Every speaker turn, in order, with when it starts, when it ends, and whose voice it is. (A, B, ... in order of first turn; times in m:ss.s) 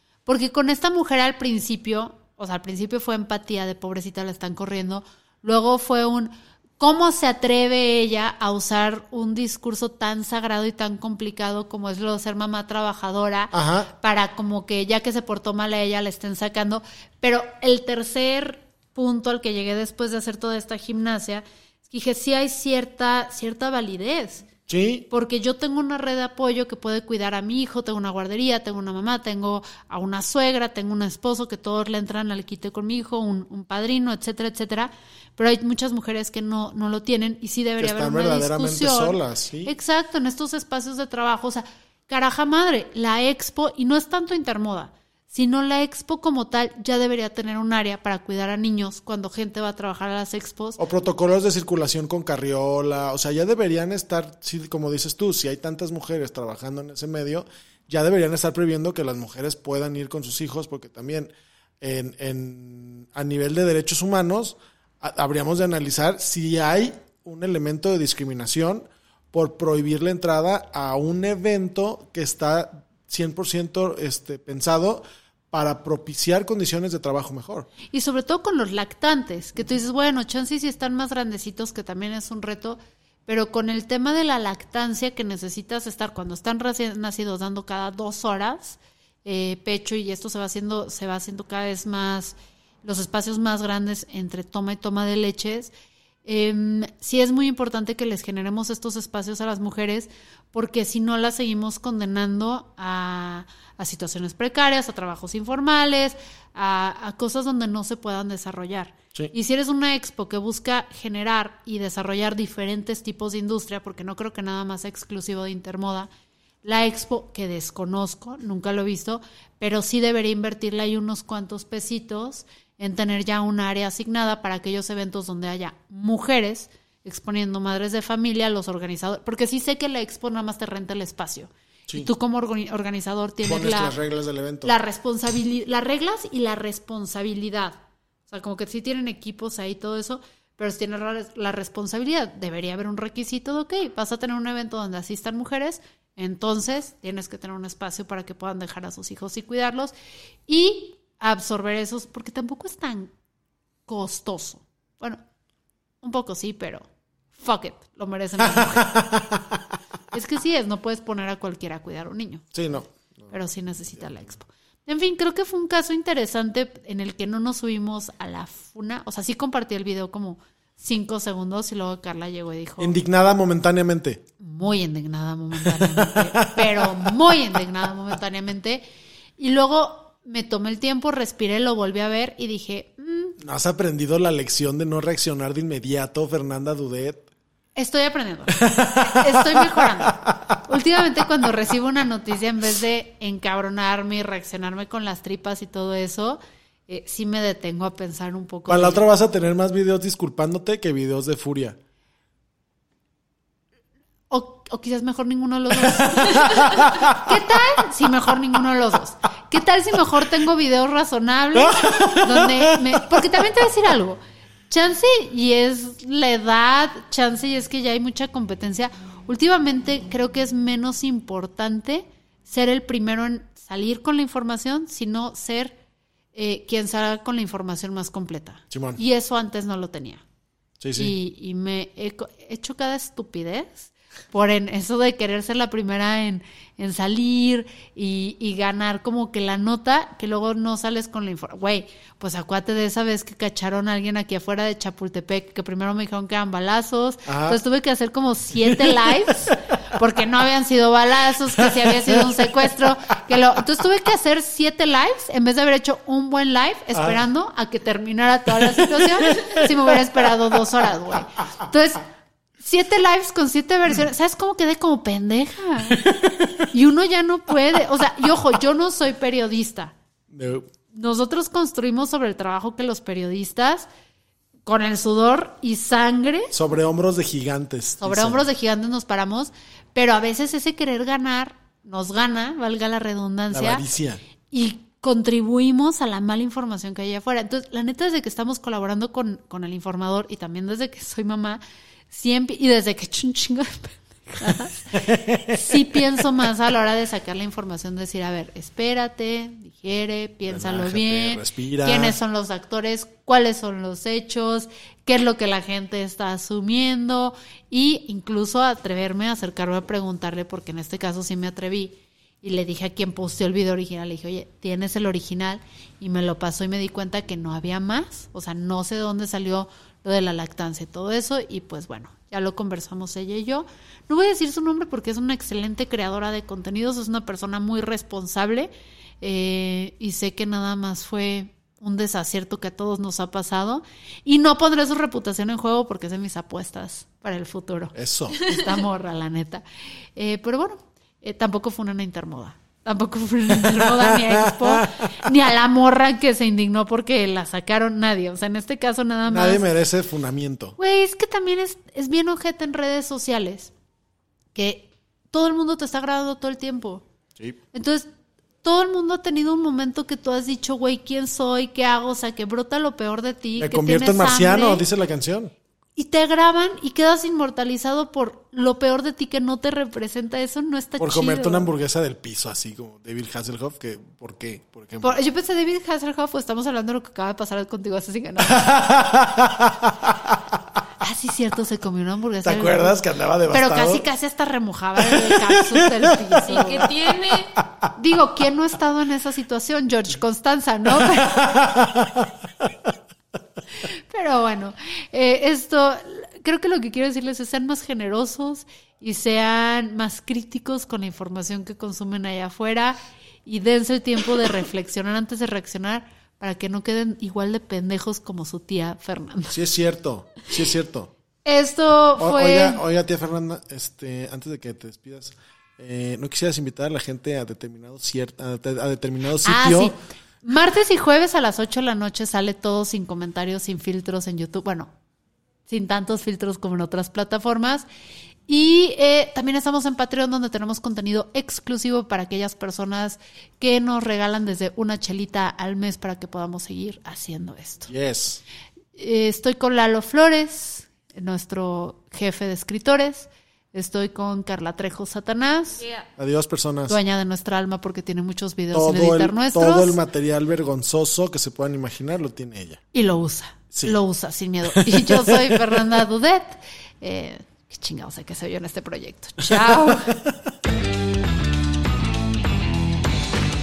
0:00.2-0:24.5 A
0:13.5-0:13.9 B
0:24.7-0:25.0 B
0:25.1-0:50.8 A
0:37.8-0:39.7 B
0:50.8-1:17.7 B
1:17.9-1:35.7 A
1:36.2-1:56.1 A
1:56.6-2:14.0 A
2:13.4-2:14.7 B
2:14.6-2:29.9 A
2:30.5-2:33.1 A
2:33.9-2:35.2 A
2:36.0-2:39.0 A
2:38.4-2:39.6 B
2:40.1-2:42.5 A
2:42.5-2:43.3 B
2:43.3-2:53.0 A
2:52.8-2:54.2 B
2:54.4-2:58.8 A
2:55.6-2:57.2 B
2:59.4-3:03.4 A
3:03.4-3:07.2 B
3:07.7-3:19.0 A
3:08.5-3:10.3 B
3:18.7-3:21.8 B
3:24.3-3:45.8 A
3:25.8-3:27.1 B
3:31.6-3:33.3 B
3:46.3-3:50.2 A
3:48.7-3:49.0 B
3:50.8-3:51.2 B
3:51.0-4:22.0 A
4:07.2-4:07.6 B
4:08.6-4:09.6 B
4:11.6-4:12.7 B
4:16.9-4:17.2 B
4:18.5-4:20.6 B
4:22.6-4:26.0 A
4:25.9-4:26.6 B
4:26.7-4:29.9 A
4:30.3-4:30.6 B
4:30.9-4:33.9 A
4:34.6-4:36.5 A
4:36.5-4:38.4 B
4:38.0-4:43.8 A
4:43.5-4:44.2 B
4:44.5-5:39.6 A
4:54.4-4:56.0 B
5:00.5-5:02.2 B
5:37.9-5:38.5 B
5:40.1-5:49.6 A
5:43.7-5:45.1 B
5:49.2-5:50.8 B
5:50.8-5:53.7 A
5:54.5-5:57.0 A
5:57.7-5:58.0 A
5:58.6-6:04.8 A
6:03.6-6:05.5 B
6:06.0-6:11.7 A
6:11.0-6:15.2 B
6:15.0-6:18.7 A
6:18.4-6:19.9 B
6:21.0-6:27.0 A
6:22.4-6:24.0 B
6:25.0-6:27.5 B
6:27.9-6:31.6 A
6:31.1-6:32.7 B
6:33.8-6:49.6 A
6:49.5-6:51.1 B
6:51.4-6:52.8 A
6:52.2-6:59.9 B
6:59.4-7:04.9 A
7:05.7-7:07.8 A
7:08.5-7:17.9 A
7:17.9-7:18.4 B
7:18.9-7:25.9 A
7:26.2-7:27.0 B
7:26.9-7:30.0 A
7:28.7-7:32.8 B
7:32.9-7:40.1 A
7:33.7-7:34.0 B
7:34.7-7:35.7 B
7:39.5-7:40.0 B